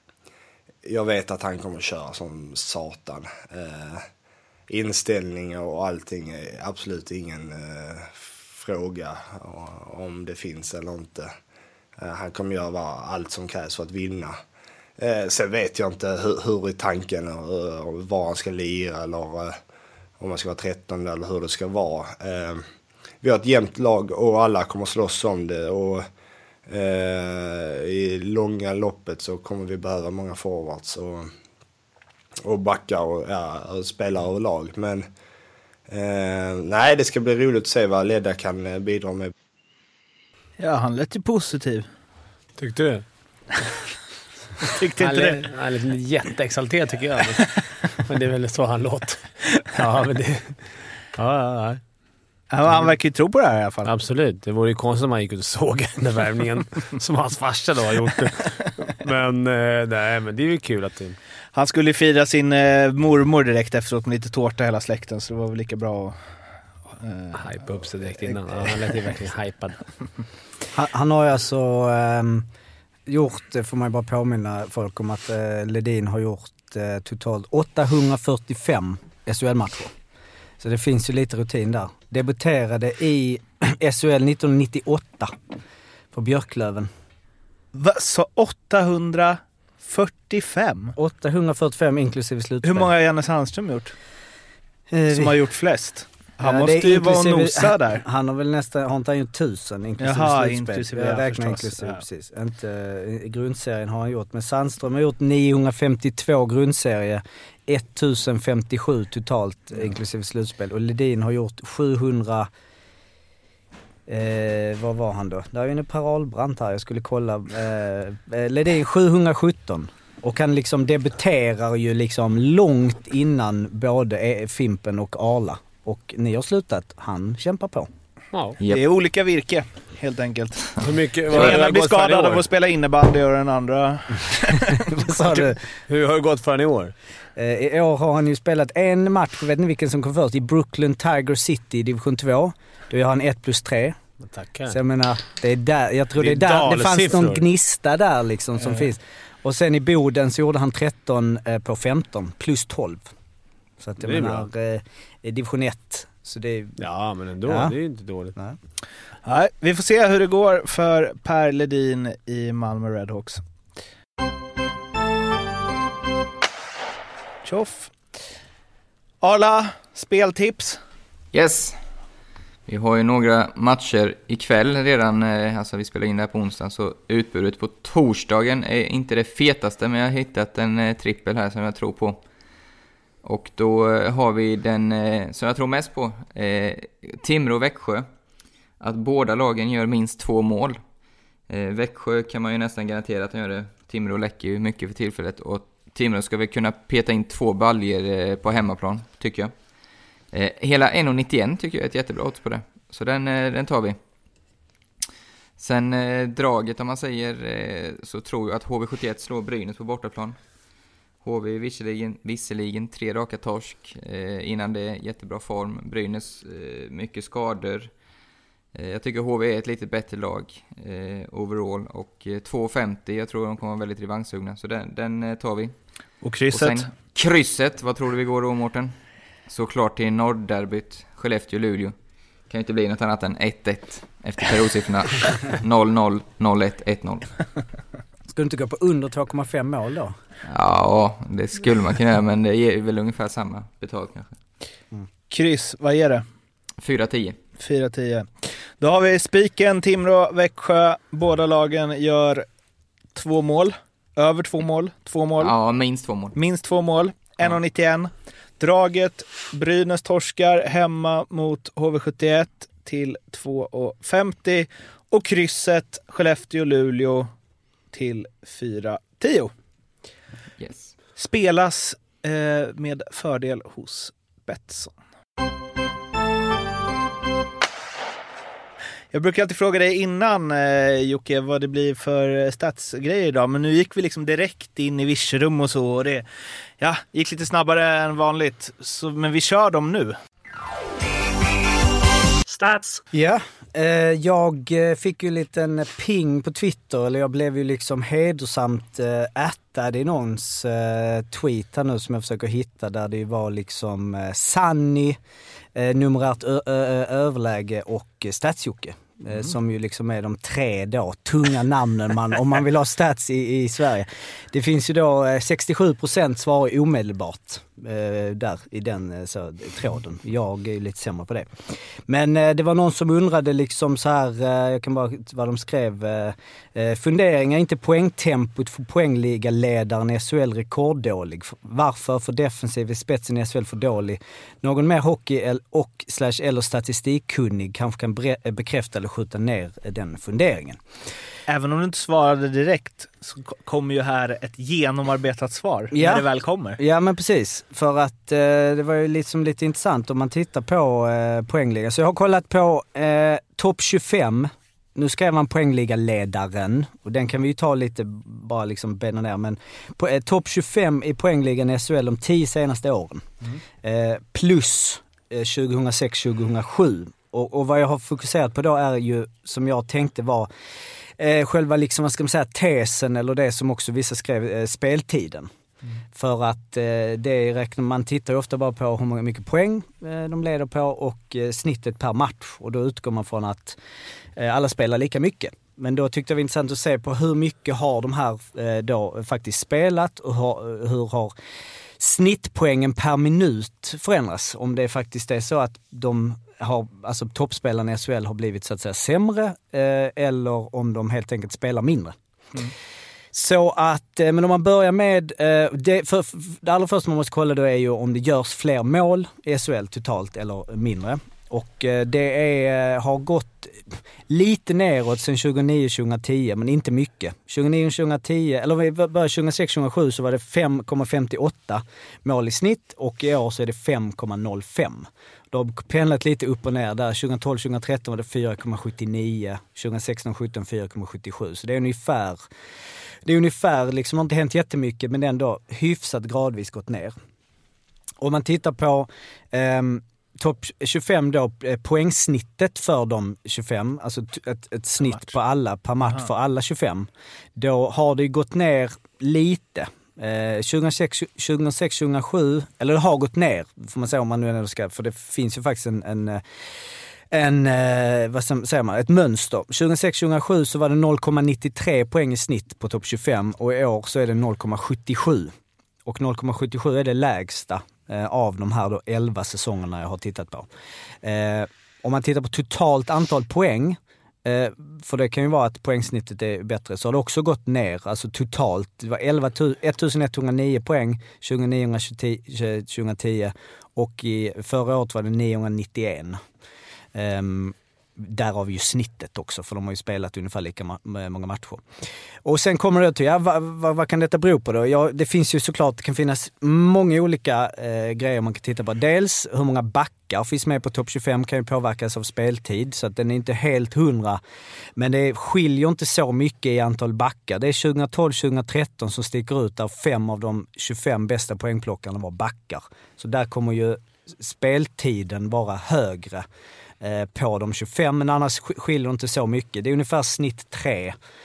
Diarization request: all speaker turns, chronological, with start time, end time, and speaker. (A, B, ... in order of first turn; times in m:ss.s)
0:00.8-0:04.1 A
0:04.7-0:11.3 A
0:12.0-0:14.4 A
0:15.0-0:19.6 A
0:20.2-0:22.6 A
0:23.2-0:26.1 A
0:26.7-0:31.3 A
0:32.4-0:35.1 A
0:35.9-0:39.3 A
0:40.6-0:41.9 B
0:42.6-0:43.0 C
0:44.7-0:45.4 B
0:45.0-0:51.8 C
0:52.5-0:53.9 B
0:53.8-1:01.2 C
1:01.5-1:06.4 B
1:06.9-1:07.5 B
1:07.3-1:09.9 C
1:08.0-1:08.8 B
1:10.7-1:12.5 D
1:13.1-1:19.9 D
1:20.6-1:25.3 D
1:26.1-1:26.9 D
1:27.7-1:30.9 B
1:31.0-1:32.9 D
1:32.6-1:33.9 B
1:34.9-1:35.3 D
1:35.1-1:38.0 B
1:36.4-1:52.5 D
1:40.0-1:42.0 B
1:54.1-2:07.9 D
2:08.3-2:08.6 C
2:08.7-2:15.1 B
2:10.8-2:12.4 C
2:14.9-2:15.6 D
2:15.9-2:16.9 C
2:17.4-2:24.0 D
2:24.2-2:24.8 C
2:24.7-2:33.1 D
2:26.2-2:27.4 C
2:33.8-2:36.8 D
2:34.0-2:34.5 C
2:36.8-2:38.3 C
2:37.5-2:37.7 D
2:39.2-2:43.4 B
2:47.4-2:48.0 B
2:49.2-2:50.8 B
2:51.3-2:51.8 E
2:52.7-3:02.2 E
3:03.2-3:08.1 E
3:08.8-3:10.8 E
3:11.5-3:19.5 E
3:20.3-3:24.0 E
3:25.6-3:30.4 E
3:31.2-3:37.9 E
3:38.7-3:45.7 E
3:46.2-3:46.9 B
3:46.5-3:48.9 E
3:49.5-3:51.9 E
3:52.5-3:57.3 E
3:58.3-4:00.1 D
4:00.5-4:04.4 E
4:05.3-4:06.2 B
4:06.8-4:07.4 E
4:07.6-4:12.4 B
4:13.1-4:15.5 B
4:15.4-4:16.4 E
4:16.3-4:27.3 B
4:27.9-4:29.5 B
4:30.6-4:30.9 E
4:31.2-4:34.9 B
4:39.1-4:46.2 B
4:46.8-4:50.2 B
4:52.5-4:52.8 B
4:53.1-5:05.2 D
5:05.7-5:40.8 D
5:41.5-5:46.8 B
5:45.9-5:46.2 D
5:46.8-6:10.5 D
6:11.2-6:15.5 D
6:16.1-6:23.8 D
6:24.3-6:31.3 D
6:32.0-6:42.7 D
6:43.3-7:12.4 D
7:13.2-7:17.1 D
7:18.2-7:36.4 D
7:37.3-7:45.5 D
7:46.0-7:50.7 D
7:51.2-8:06.4 D
8:07.1-8:11.8 D
8:12.4-8:24.4 D
8:25.0-8:36.4 D
8:37.0-8:41.2 D